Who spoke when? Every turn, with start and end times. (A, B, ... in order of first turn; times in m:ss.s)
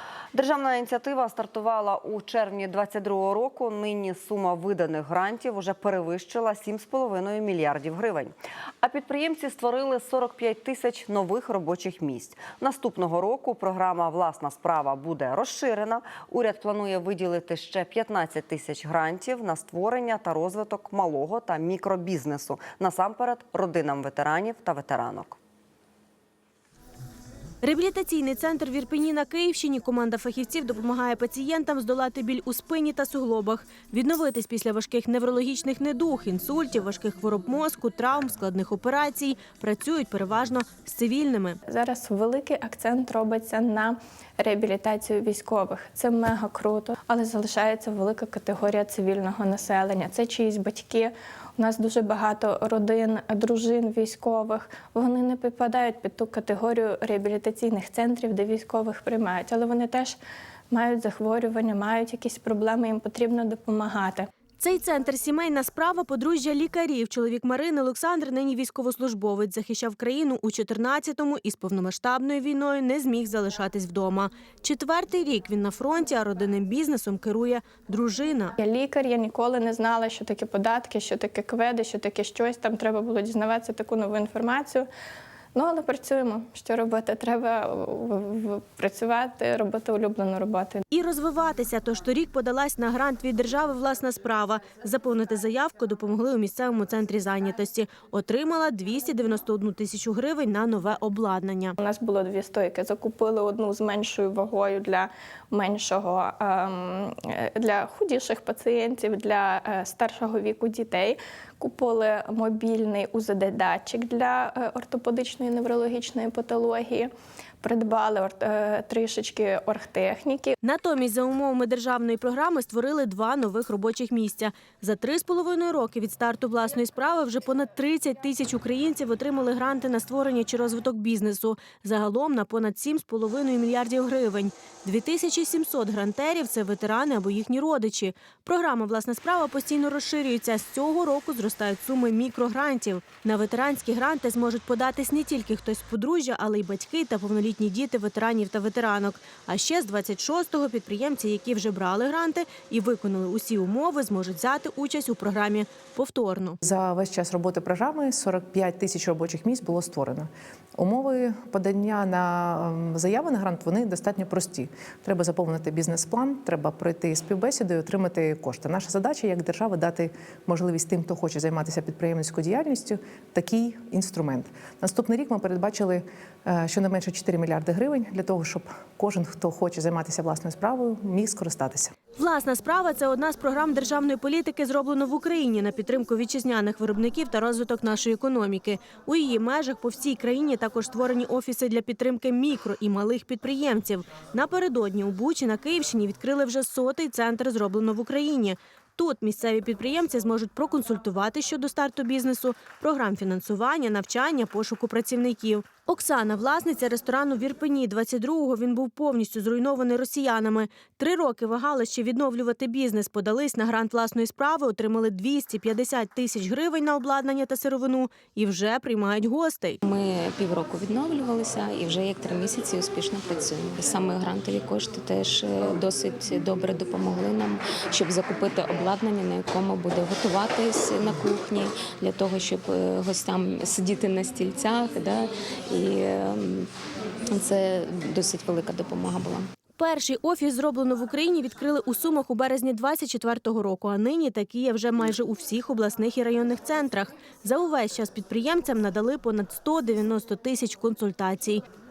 0:00.3-0:25.4 A
0:27.6-0:41.6 B
0:41.7-1:00.2 C
1:00.7-1:04.3 C
1:04.6-1:18.6 B
1:18.6-1:24.9 C
1:25.5-1:30.8 C
1:30.9-1:41.8 B
1:41.8-1:57.1 C
1:57.6-2:00.6 C
2:00.6-2:36.6 B
2:36.6-3:01.9 D
3:02.2-3:39.8 B
3:39.8-3:56.7 E
3:57.3-3:59.5 E
3:59.8-4:11.6 B